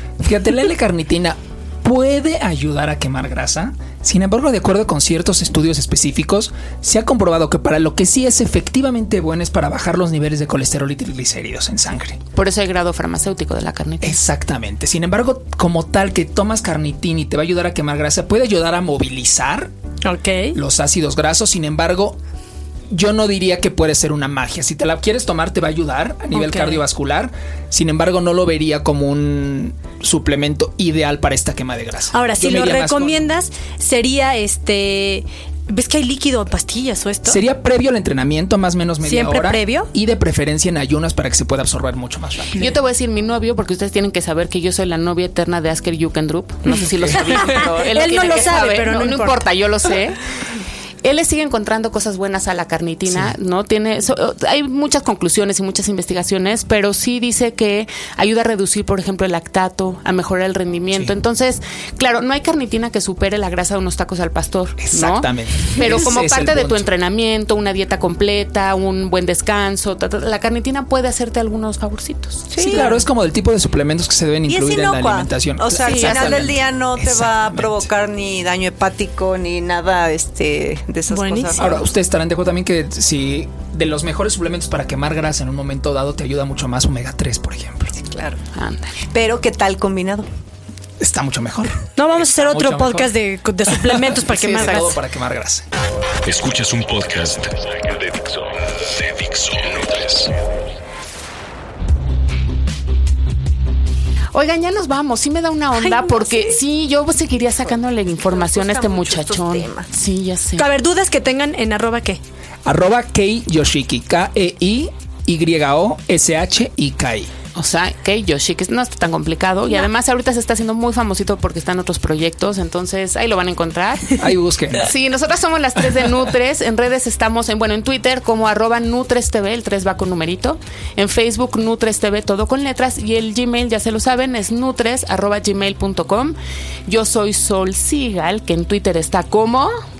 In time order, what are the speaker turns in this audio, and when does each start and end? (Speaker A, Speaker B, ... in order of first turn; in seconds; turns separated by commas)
Speaker A: 0.2-12.2, Speaker B: 12.3-14.2, Speaker A: 14.0-19.7, Speaker C: 20.0-20.6, Speaker A: 20.5-22.2, Speaker A: 22.9-33.2, Speaker C: 26.3-26.8, Speaker C: 32.1-37.4, Speaker A: 37.2-42.5, Speaker C: 39.0-39.9, Speaker B: 42.6-50.2, Speaker A: 47.0-47.6, Speaker C: 47.4-49.4, Speaker B: 51.0-72.9, Speaker A: 53.0-53.3, Speaker A: 64.8-66.9, Speaker D: 72.5-73.1, Speaker A: 72.6-77.9, Speaker D: 74.5-81.7, Speaker B: 75.8-76.5, Speaker C: 81.1-81.9, Speaker A: 81.5-88.0, Speaker D: 88.0-88.4, Speaker B: 88.5-89.0, Speaker D: 89.1-90.3, Speaker A: 91.0-93.1, Speaker C: 92.0-95.0, Speaker A: 93.7-95.7, Speaker B: 94.4-94.8, Speaker E: 96.2-100.3, Speaker B: 104.3-110.7, Speaker C: 105.8-106.6, Speaker D: 108.1-109.9, Speaker C: 110.6-112.2, Speaker A: 112.6-117.3, Speaker B: 117.5-124.2, Speaker A: 124.2-124.9, Speaker B: 124.7-136.3, Speaker B: 136.9-139.7